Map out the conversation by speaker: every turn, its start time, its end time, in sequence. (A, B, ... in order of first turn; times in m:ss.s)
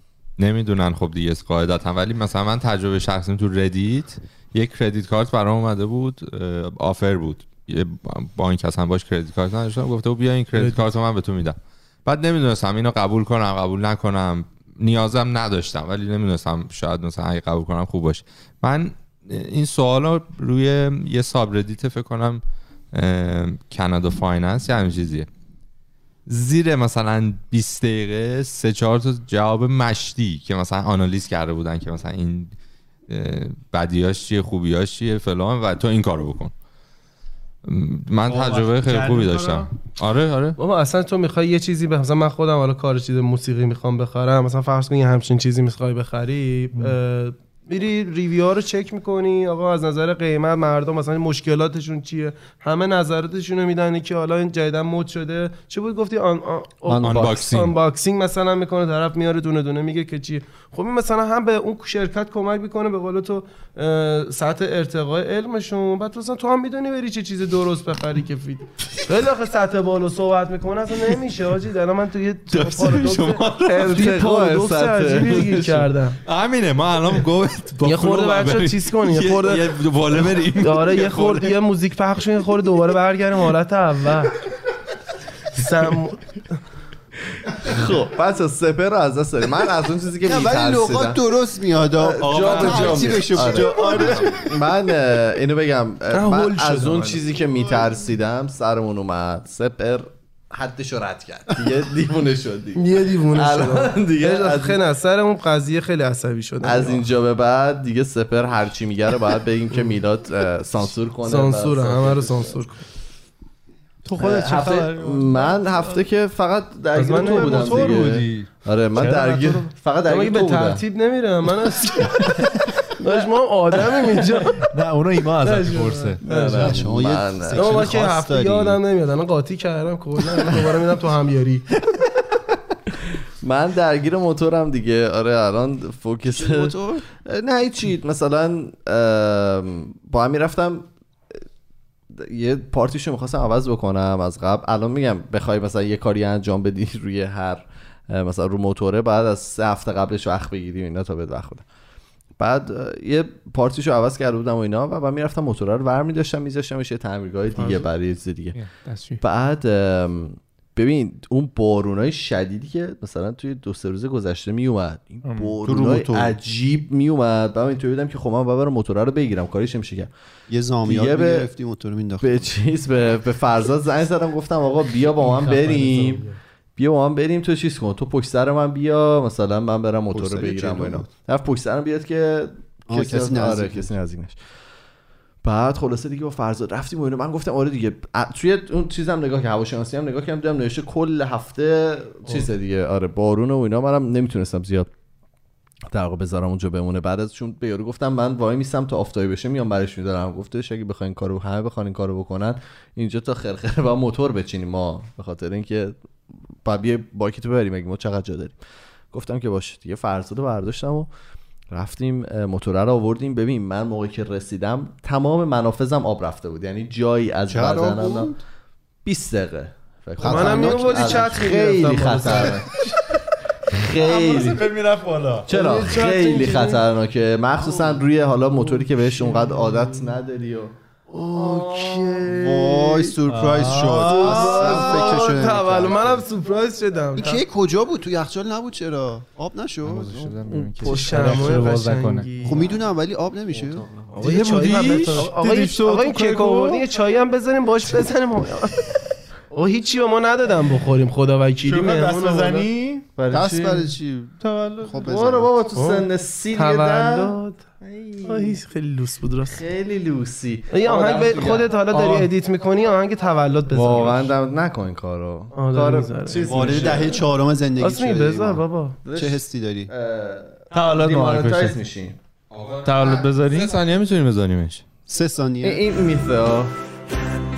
0:00.4-0:22.4 A
0:22.9-0:25.3 A
0:26.3-0:32.5 A
0:33.1-0:36.5 A
0:37.6-0:40.6 A
0:38.3-0:39.7 B
0:40.6-1:16.2 C
0:56.9-0:57.4 D
0:57.0-0:57.7 A
1:12.5-1:14.0 A
1:13.6-1:15.9 D
1:16.2-1:21.5 A
1:17.8-1:19.8 C
1:20.4-1:24.4 C
1:25.5-1:26.4 C
1:27.5-1:31.2 D
1:30.2-1:34.4 E
1:32.0-1:44.8 D
1:32.3-1:33.2 A
1:32.4-1:34.3 B
1:36.1-1:37.2 C
1:42.8-1:47.0 C
1:46.6-1:52.6 D
1:51.2-1:52.8 C
1:54.0-1:56.0 B
1:54.2-2:00.8 D
1:56.9-1:58.0 C
1:57.1-1:59.7 B
2:00.0-2:04.7 C
2:04.6-2:06.2 B
2:05.4-2:06.8 C
2:06.2-2:07.9 D
2:06.6-2:08.8 E
2:07.5-2:11.7 C
2:13.4-2:20.9 D
2:16.3-2:17.0 E
2:22.1-2:31.6 D
2:32.4-2:38.6 D
2:38.5-2:39.2 B
2:39.2-2:50.1 D
2:45.2-2:45.6 B
2:45.6-2:46.4 E
2:50.5-2:52.5 E
2:50.8-2:51.5 D
2:52.2-2:56.2 D
2:55.4-2:56.3 C
2:56.8-3:04.4 D
3:00.1-3:01.1 E
3:02.9-3:03.9 E
3:05.4-3:14.9 D
3:15.9-3:25.9 D
3:26.6-3:28.6 D
3:29.1-3:31.1 D
3:31.7-3:38.4 D
3:37.5-3:38.4 E
3:39.0-3:42.9 D
3:40.2-3:41.2 E
3:40.2-3:42.6 C
3:43.7-3:44.7 D
3:44.0-3:45.5 B
3:45.4-3:50.7 D
3:45.5-3:46.8 C
3:47.7-3:48.0 E
3:51.1-3:52.3 C
3:51.3-3:53.1 D
3:51.4-3:56.2 E
3:53.3-3:55.2 B
3:54.0-3:57.4 C
3:54.1-3:56.2 D
3:57.2-4:00.4 E
3:59.8-4:02.4 B
4:00.4-4:01.7 D
4:00.8-4:02.6 C
4:02.4-4:03.9 E
4:03.5-4:04.3 D
4:04.1-4:12.7 C
4:04.2-4:06.8 B
4:11.6-4:13.1 B
4:13.0-4:13.9 D
4:13.3-4:15.5 E
4:14.4-4:15.0 B
4:14.9-4:18.6 D
4:15.7-4:17.6 C
4:18.2-4:19.6 C
4:19.5-4:22.3 D
4:20.7-4:24.3 C
4:23.7-4:27.2 D
4:25.5-4:26.6 C
4:26.3-4:27.2 B
4:26.4-4:29.9 E
4:27.8-4:29.0 C
4:29.0-4:32.2 D
4:30.7-4:31.8 B
4:32.5-4:34.8 A
4:32.8-4:33.7 B
4:35.1-4:35.8 E
4:35.6-4:36.7 D